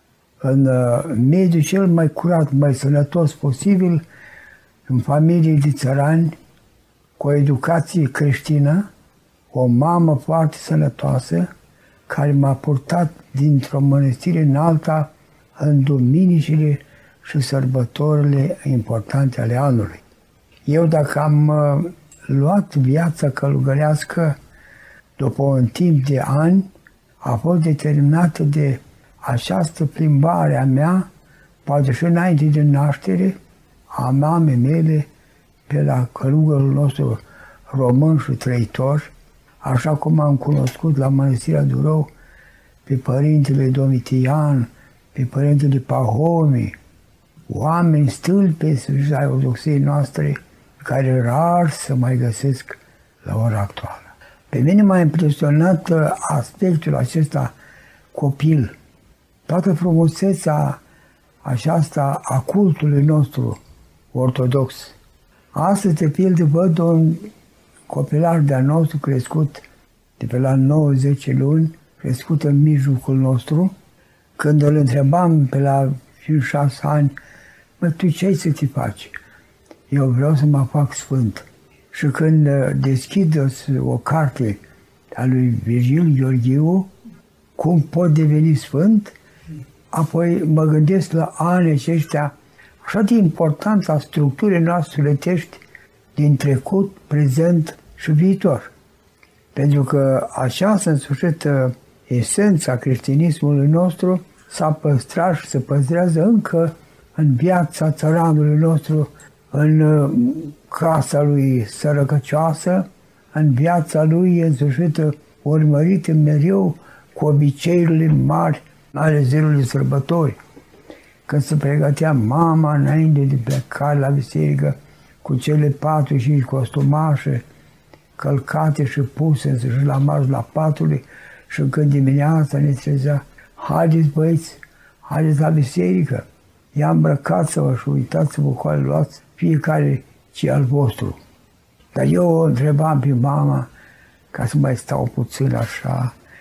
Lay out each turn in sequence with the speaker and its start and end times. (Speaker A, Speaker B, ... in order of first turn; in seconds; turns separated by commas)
Speaker A: 0.4-4.0, Speaker A: 4.9-6.3, Speaker A: 7.2-8.9, Speaker A: 9.5-11.5, Speaker A: 12.1-20.0, Speaker A: 20.6-24.4, Speaker A: 25.2-26.7, Speaker A: 27.2-31.1, Speaker A: 31.6-33.4, Speaker A: 33.9-35.1, Speaker A: 35.7-42.1, Speaker A: 42.8-46.7, Speaker A: 47.5-57.5, Speaker A: 58.1-58.7, Speaker A: 59.5-60.8, Speaker A: 61.4-63.6, Speaker A: 64.1-65.0, Speaker A: 65.5-67.3, Speaker A: 67.9-69.6, Speaker A: 70.2-73.7, Speaker A: 74.4-77.1, Speaker A: 77.8-79.1, Speaker A: 79.9-84.6, Speaker A: 85.1-86.9, Speaker A: 87.5-89.1, Speaker A: 89.9-95.6, Speaker A: 96.2-98.7, Speaker A: 99.5-120.4, Speaker A: 121.3-127.4, Speaker A: 128.2-141.2, Speaker A: 141.9-143.7, Speaker A: 144.3-146.1